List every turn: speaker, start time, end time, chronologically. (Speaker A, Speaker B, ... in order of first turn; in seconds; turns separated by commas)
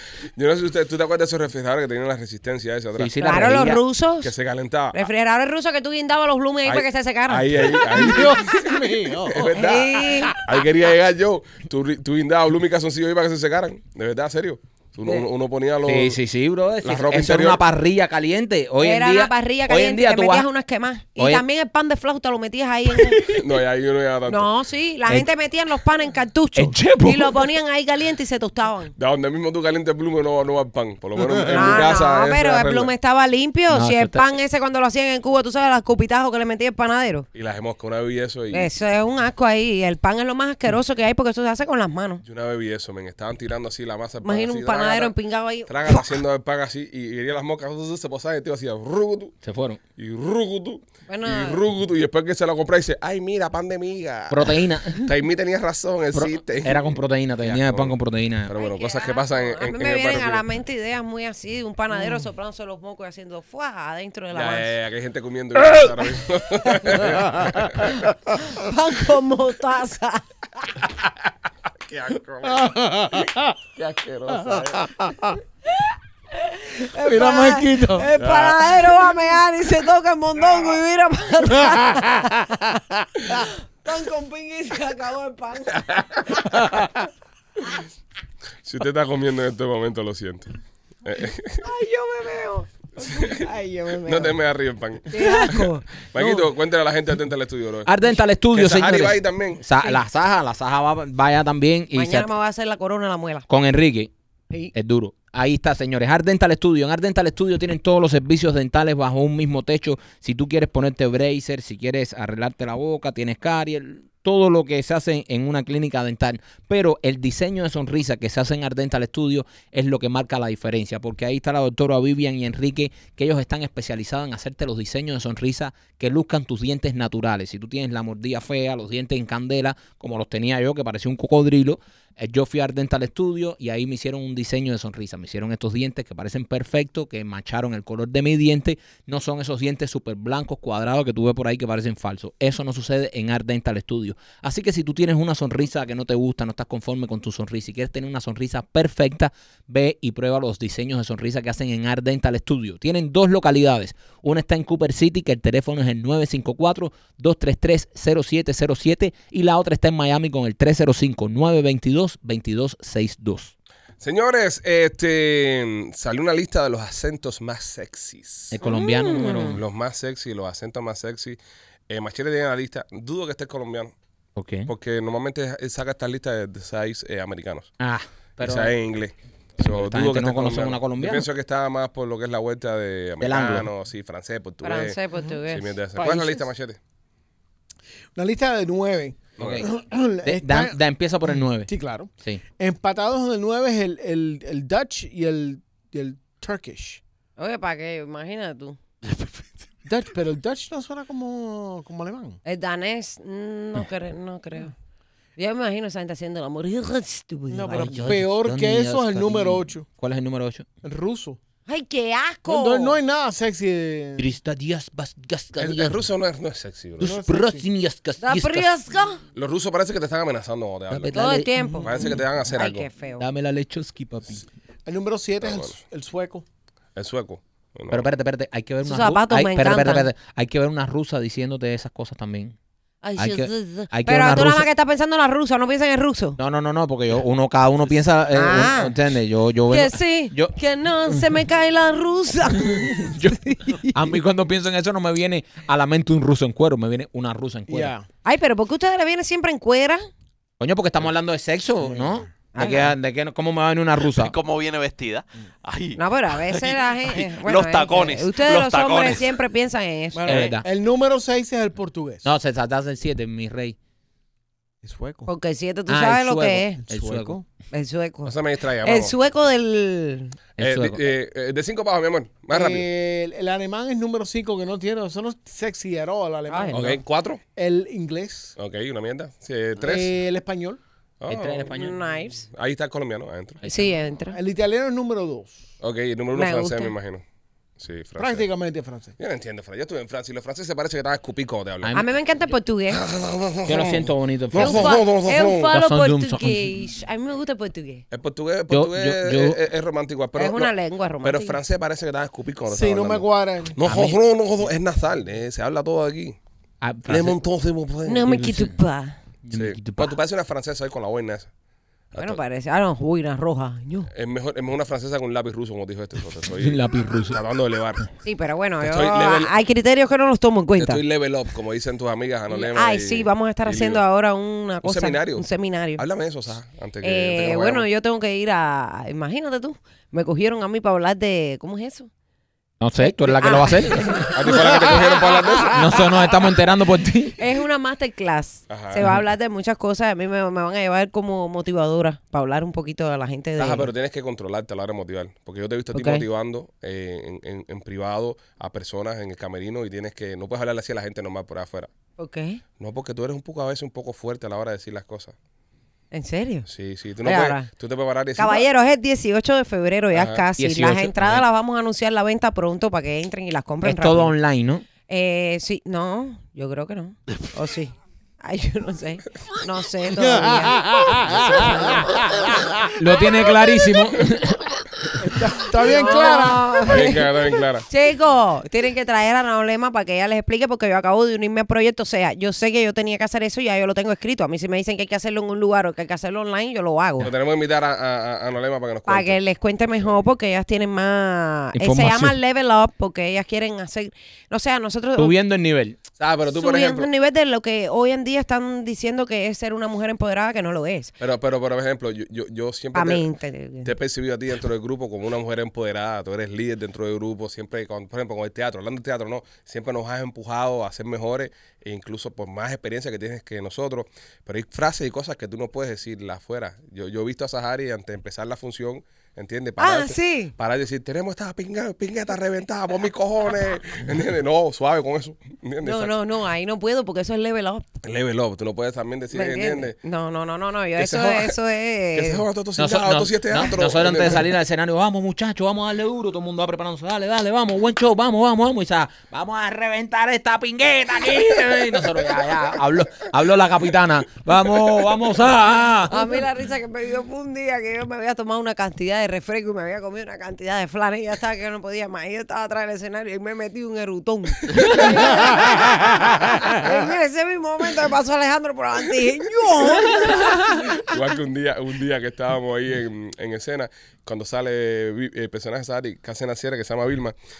Speaker A: 0.3-3.3, Speaker B: 3.0-3.8, Speaker C: 3.2-4.3, Speaker A: 4.2-5.0, Speaker C: 4.9-7.9, Speaker A: 6.6-16.2, Speaker D: 7.9-9.6, Speaker C: 9.5-10.4, Speaker B: 15.8-20.5, Speaker A: 16.8-17.6, Speaker C: 18.8-23.3, Speaker B: 21.2-21.4, Speaker B: 22.9-23.3, Speaker A: 23.3-24.5, Speaker C: 24.3-28.9, Speaker B: 26.5-27.5, Speaker A: 28.9-32.9, Speaker C: 31.5-37.3, Speaker B: 33.7-34.2, Speaker A: 37.3-38.7, Speaker C: 38.5-42.2, Speaker A: 42.2-45.1, Speaker C: 44.2-46.1, Speaker A: 45.6-49.3, Speaker B: 49.4-49.8, Speaker A: 50.0-60.4, Speaker C: 51.1-51.6, Speaker B: 54.3-55.0, Speaker B: 56.1-58.5, Speaker C: 58.5-64.7, Speaker A: 64.3-68.1, Speaker C: 68.4-70.8, Speaker A: 71.9-72.8, Speaker D: 72.5-73.5, Speaker A: 73.8-74.9, Speaker D: 74.4-75.4, Speaker C: 75.7-86.9, Speaker D: 77.0-78.1, Speaker A: 78.2-78.7, Speaker A: 88.6-90.5, Speaker A: 91.0-91.6, Speaker C: 91.6-94.4, Speaker A: 93.1-93.4, Speaker A: 94.0-97.9, Speaker C: 95.1-96.0, Speaker B: 96.2-96.5, Speaker B: 97.8-102.3, Speaker A: 98.5-99.6, Speaker C: 101.9-103.5, Speaker B: 103.5-104.1, Speaker B: 104.7-163.5, Speaker A: 164.0-168.6, Speaker B: 168.5-169.6, Speaker C: 168.6-169.6, Speaker A: 169.4-171.4, Speaker A: 171.9-173.9, Speaker B: 174.3-174.7, Speaker A: 174.7-177.7, Speaker B: 177.8-178.7, Speaker A: 178.4-186.8, Speaker B: 179.6-181.3, Speaker B: 183.2-183.7, Speaker C: 184.6-185.8, Speaker D: 185.9-186.4, Speaker D: 188.2-190.7, Speaker A: 189.4-189.7, Speaker B: 189.4-189.7, Speaker B: 190.2-192.4, Speaker D: 191.2-197.0, Speaker C: 197.4-198.8, Speaker E: 199.1-199.4, Speaker D: 199.8-202.4, Speaker C: 202.4-204.7, Speaker C: 205.4-208.2, Speaker D: 207.5-209.8, Speaker B: 207.7-210.7, Speaker D: 210.8-211.4, Speaker C: 211.7-213.0, Speaker D: 212.4-214.3, Speaker B: 214.2-216.0, Speaker A: 215.6-217.2, Speaker B: 217.0-218.7, Speaker D: 217.0-217.7, Speaker C: 218.2-219.2, Speaker A: 219.3-221.1, Speaker B: 220.9-221.6, Speaker C: 221.1-223.2, Speaker D: 221.6-222.1, Speaker A: 221.8-222.9, Speaker B: 223.2-224.4, Speaker D: 224.8-226.4, Speaker A: 225.4-225.8, Speaker A: 226.9-228.1, Speaker B: 227.9-232.6, Speaker C: 228.8-230.1, Speaker C: 233.0-236.4, Speaker B: 233.2-234.7, Speaker B: 236.4-240.5, Speaker C: 238.3-239.0, Speaker C: 239.7-244.0, Speaker B: 242.8-247.9, Speaker D: 247.7-248.1, Speaker C: 248.2-250.0, Speaker B: 250.6-254.3, Speaker C: 252.5-252.9, Speaker E: 254.1-259.4, Speaker C: 255.9-260.5, Speaker D: 260.1-262.3, Speaker B: 260.2-260.6, Speaker B: 262.2-263.8, Speaker D: 264.8-265.3, Speaker C: 265.2-266.8, Speaker B: 265.9-267.4, Speaker D: 266.8-267.4, Speaker C: 267.7-270.4, Speaker A: 268.2-269.1, Speaker B: 270.6-271.0, Speaker A: 270.6-272.9, Speaker D: 272.5-277.0, Speaker C: 276.5-276.9, Speaker A: 276.7-277.4, Speaker D: 277.6-278.5, Speaker A: 278.6-280.1, Speaker D: 279.8-280.8, Speaker A: 281.2-281.9, Speaker B: 281.3-282.0, Speaker C: 281.7-282.5, Speaker A: 282.5-283.7, Speaker B: 283.6-283.9, Speaker C: 283.6-284.4, Speaker D: 284.3-285.6, Speaker A: 285.8-287.2, Speaker C: 286.3-286.9, Speaker A: 287.8-288.5, Speaker D: 288.2-289.1, Speaker A: 289.2-291.9, Speaker B: 291.8-292.1, Speaker C: 291.9-293.1, Speaker A: 292.9-295.8, Speaker B: 293.6-295.0, Speaker C: 294.5-298.0, Speaker B: 295.7-296.8, Speaker A: 298.1-306.4, Speaker B: 298.7-299.6, Speaker C: 300.4-301.6, Speaker D: 302.7-303.8, Speaker B: 303.8-304.2, Speaker B: 306.8-307.4, Speaker A: 307.1-308.6, Speaker C: 308.1-309.2, Speaker B: 308.3-308.8, Speaker B: 309.4-310.2, Speaker A: 309.5-311.5, Speaker A: 312.1-312.4, Speaker C: 312.1-314.1, Speaker A: 314.1-318.1, Speaker B: 316.6-317.4, Speaker C: 318.2-321.0, Speaker A: 318.8-319.5, Speaker A: 320.8-324.0, Speaker C: 322.5-326.0, Speaker A: 324.8-327.9, Speaker C: 327.0-332.1, Speaker B: 332.8-334.4, Speaker C: 333.0-334.5, Speaker A: 334.3-336.0, Speaker B: 335.7-337.4, Speaker C: 337.4-343.9, Speaker A: 338.7-339.1, Speaker A: 343.6-351.9, Speaker C: 345.9-346.2, Speaker C: 352.2-352.6, Speaker A: 352.8-355.3, Speaker C: 356.1-356.7, Speaker A: 356.7-358.7, Speaker C: 357.2-357.7, Speaker C: 358.4-364.3, Speaker A: 360.1-360.4, Speaker B: 360.6-361.4, Speaker B: 363.8-364.8, Speaker C: 365.1-372.1, Speaker D: 370.1-372.9, Speaker B: 372.9-374.8, Speaker D: 375.2-377.0, Speaker C: 375.8-377.3, Speaker A: 376.8-377.9, Speaker C: 377.9-387.3, Speaker A: 387.2-389.4, Speaker C: 389.1-395.3, Speaker B: 391.7-392.4, Speaker B: 395.1-396.0, Speaker A: 396.2-397.1, Speaker C: 396.5-401.1, Speaker A: 401.2-403.3, Speaker C: 402.9-403.9, Speaker A: 403.8-426.1, Speaker C: 419.8-420.5, Speaker C: 425.8-427.9, Speaker A: 428.0-429.9, Speaker C: 429.3-432.4, Speaker A: 431.0-431.6, Speaker A: 432.1-434.5, Speaker B: 432.8-446.3, Speaker C: 446.1-461.1, Speaker A: 454.8-455.5, Speaker A: 460.9-467.3